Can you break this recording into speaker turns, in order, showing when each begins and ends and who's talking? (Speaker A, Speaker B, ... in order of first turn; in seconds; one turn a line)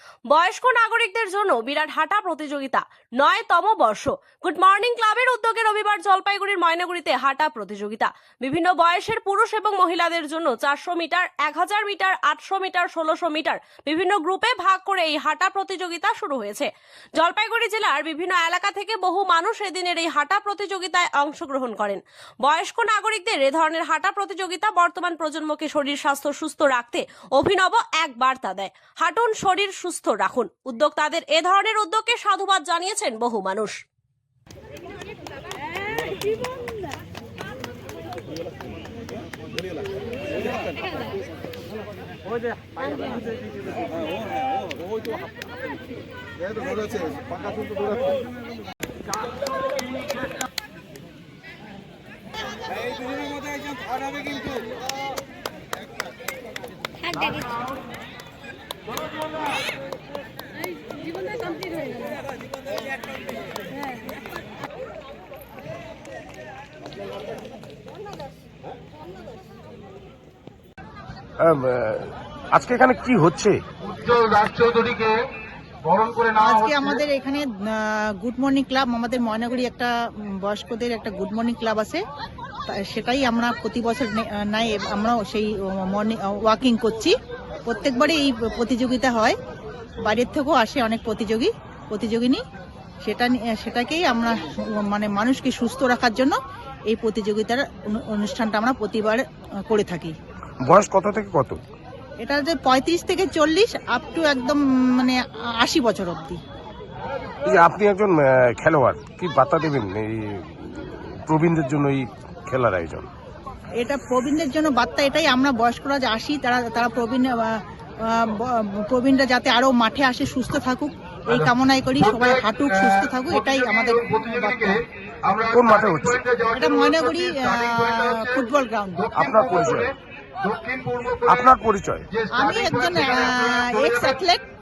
Speaker A: 0.3-33.8
Speaker B: 71.4-73.6
Speaker C: 73.8-75.1
Speaker C: 75.8-76.8
Speaker D: 76.4-79.9
Speaker D: 80.4-82.0
Speaker D: 82.7-87.1
Speaker D: 87.7-89.3
Speaker D: 90.0-92.4
Speaker D: 93.0-96.3
Speaker D: 96.9-100.1
Speaker B: 100.6-101.6
Speaker D: 102.2-106.4
Speaker B: 107.5-113.1
Speaker D: 113.8-124.8
Speaker C: 123.3-124.7
Speaker C: 125.2-128.3
Speaker B: 125.5-126.2
Speaker D: 126.5-129.1
Speaker C: 129.1-129.9
Speaker B: 129.1-129.9
Speaker C: 130.4-131.4
Speaker B: 131.2-132.1
Speaker C: 132.1-134.1
Speaker D: 132.3-134.4